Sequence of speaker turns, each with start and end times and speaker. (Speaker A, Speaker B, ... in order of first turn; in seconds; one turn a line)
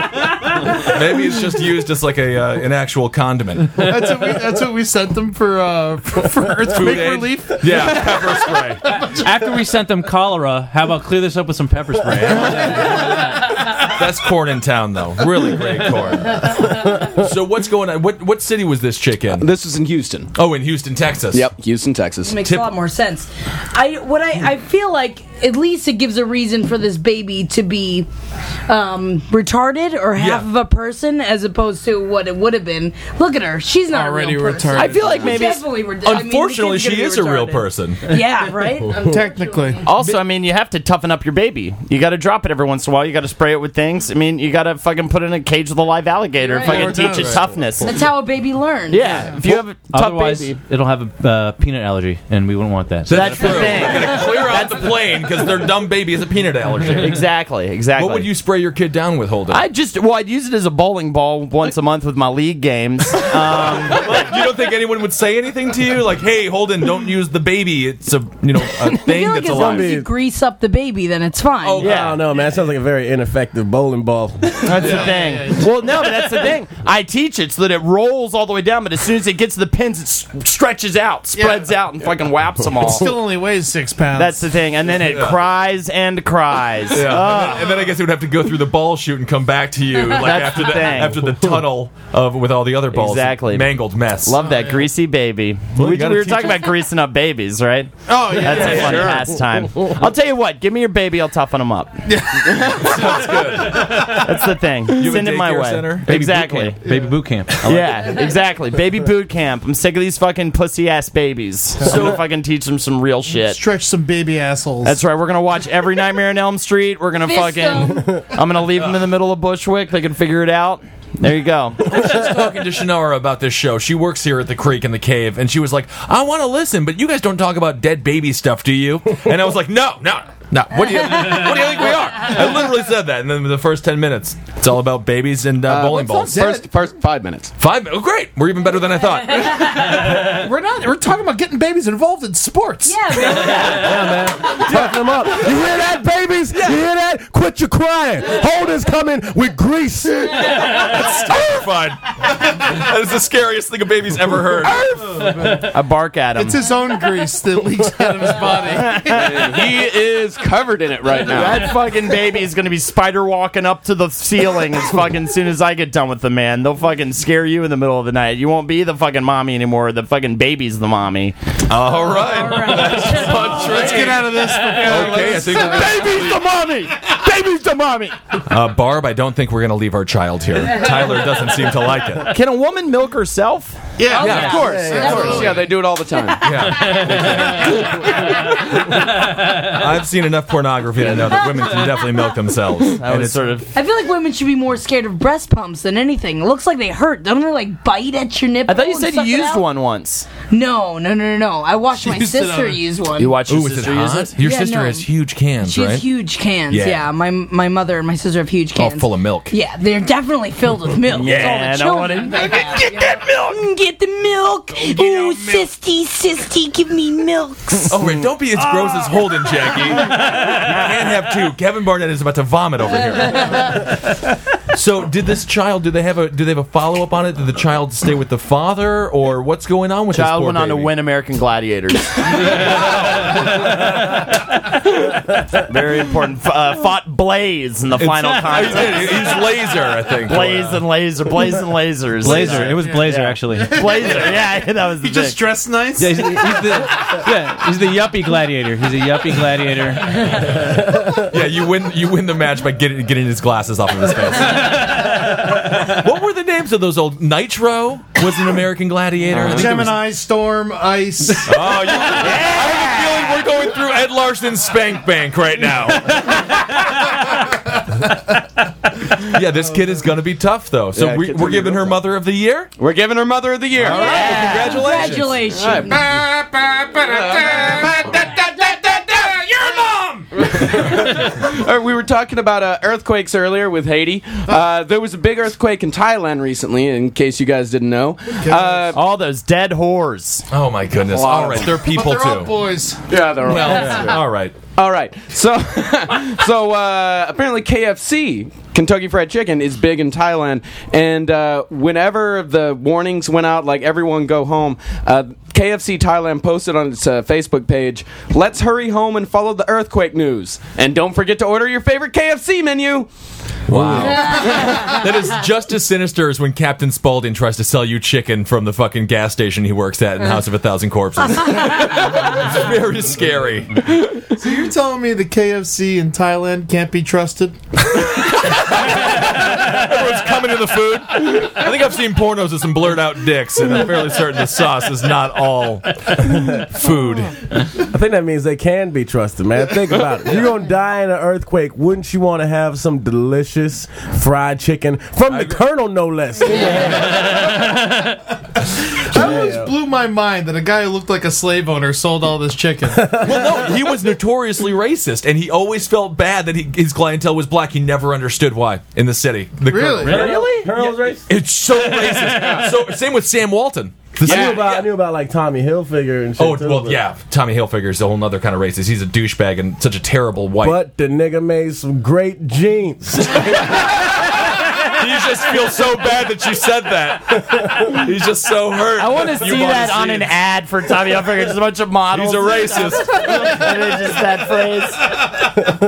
Speaker A: 0.7-3.9
Speaker B: 3.8-8.4
Speaker A: 6.7-8.8
Speaker C: 9.0-13.0
Speaker A: 13.7-19.4
Speaker D: 19.4-20.3
Speaker A: 20.3-21.5
Speaker D: 21.3-22.4
Speaker E: 22.2-28.1
Speaker A: 22.4-22.7
Speaker E: 28.7-39.9
Speaker A: 30.2-30.5
Speaker B: 33.9-35.4
Speaker F: 34.7-35.6
Speaker A: 36.0-38.0
Speaker B: 39.0-39.8
Speaker F: 39.8-48.0
Speaker E: 46.4-47.2
Speaker B: 46.6-47.6
Speaker E: 47.8-49.3
Speaker F: 48.9-50.6
Speaker B: 49.1-49.4
Speaker C: 49.8-53.6
Speaker A: 53.1-57.2
Speaker F: 53.1-54.9
Speaker F: 56.9-58.3
Speaker A: 57.9-59.7
Speaker F: 59.5-64.3
Speaker A: 63.2-69.9
Speaker E: 68.8-72.0
Speaker G: 69.5-70.1
Speaker A: 71.6-72.2
Speaker G: 71.8-75.0
Speaker F: 74.6-83.2
Speaker B: 74.7-76.0
Speaker B: 81.3-81.7
Speaker B: 82.8-84.5
Speaker F: 84.1-87.8
Speaker A: 84.9-85.4
Speaker A: 86.9-94.4
Speaker F: 90.0-91.4
Speaker F: 92.9-102.0
Speaker B: 94.4-94.9
Speaker A: 95.8-96.8
Speaker B: 98.1-99.3
Speaker A: 98.4-99.3
Speaker B: 102.1-103.5
Speaker A: 102.7-104.2
Speaker F: 103.8-106.8
Speaker A: 104.8-106.8
Speaker C: 106.8-108.2
Speaker F: 107.6-113.6
Speaker A: 111.8-112.2
Speaker B: 113.2-115.0
Speaker F: 114.8-122.1
Speaker E: 117.2-118.0
Speaker A: 121.8-136.4
Speaker D: 135.7-137.5
Speaker B: 136.2-136.7
Speaker A: 137.6-139.9
Speaker B: 139.8-143.0
Speaker E: 142.8-143.9
Speaker A: 143.1-143.9
Speaker G: 143.6-150.4
Speaker A: 144.5-145.4
Speaker A: 146.5-146.8
Speaker A: 150.3-154.9
Speaker B: 155.1-155.5
Speaker F: 155.2-156.6
Speaker B: 156.3-159.6
Speaker F: 158.8-159.4
Speaker D: 159.1-161.8
Speaker F: 161.2-171.3
Speaker A: 171.7-176.3
Speaker E: 172.2-174.0
Speaker B: 173.5-176.1
Speaker D: 174.8-175.8
Speaker F: 175.6-178.4
Speaker A: 178.4-182.3
Speaker F: 182.2-183.8
Speaker B: 184.0-185.7
Speaker E: 184.1-186.3
Speaker A: 184.2-184.6
Speaker D: 184.2-186.8
Speaker G: 184.6-185.3
Speaker A: 186.4-193.6
Speaker C: 186.8-187.2
Speaker F: 192.9-193.7
Speaker E: 193.7-199.6
Speaker F: 198.7-200.3
Speaker E: 200.5-203.3
Speaker B: 201.9-202.8
Speaker F: 203.2-204.3
Speaker A: 203.5-206.0
Speaker E: 204.4-205.1
Speaker E: 205.6-218.0
Speaker A: 206.7-207.1
Speaker A: 208.8-209.6
Speaker A: 211.1-211.8
Speaker F: 211.2-212.8
Speaker A: 212.8-213.4
Speaker B: 214.8-215.7
Speaker A: 217.9-223.9
Speaker A: 224.7-230.9
Speaker F: 230.1-232.8
Speaker A: 232.4-233.7
Speaker C: 233.3-233.6
Speaker F: 235.6-239.5
Speaker A: 237.9-240.9
Speaker F: 240.1-245.4
Speaker C: 242.2-244.2
Speaker B: 242.2-247.1
Speaker C: 246.0-250.2
Speaker A: 250.3-260.0
Speaker B: 259.4-261.8
Speaker A: 261.4-266.5
Speaker F: 262.2-263.4
Speaker A: 269.2-272.7
Speaker D: 270.9-272.0
Speaker D: 272.8-274.4
Speaker F: 273.8-275.1
Speaker A: 273.8-275.4
Speaker E: 273.9-276.1
Speaker D: 275.5-276.2
Speaker B: 275.9-280.3
Speaker D: 277.0-277.8
Speaker D: 280.5-289.0
Speaker B: 288.4-288.9
Speaker F: 288.9-290.5
Speaker A: 290.5-292.6
Speaker D: 291.0-291.8
Speaker B: 291.8-294.2
Speaker D: 293.1-294.2
Speaker A: 293.4-294.6
Speaker D: 294.8-313.1
Speaker A: 313.7-324.2
Speaker D: 313.9-314.5
Speaker B: 324.3-327.6
Speaker A: 327.9-337.4
Speaker G: 337.8-347.3
Speaker A: 345.3-345.6
Speaker B: 346.7-347.2
Speaker B: 349.0-353.1
Speaker G: 349.1-349.7
Speaker G: 352.9-353.9
Speaker A: 353.2-360.4
Speaker B: 359.6-360.3
Speaker C: 360.0-360.9
Speaker G: 360.1-361.3
Speaker A: 361.2-364.9
Speaker C: 361.7-362.7
Speaker D: 362.2-362.7
Speaker G: 364.2-367.0
Speaker D: 364.2-364.7
Speaker A: 366.4-370.8
Speaker G: 370.6-373.7
Speaker A: 373.4-380.4
Speaker F: 379.0-385.2
Speaker A: 382.1-383.6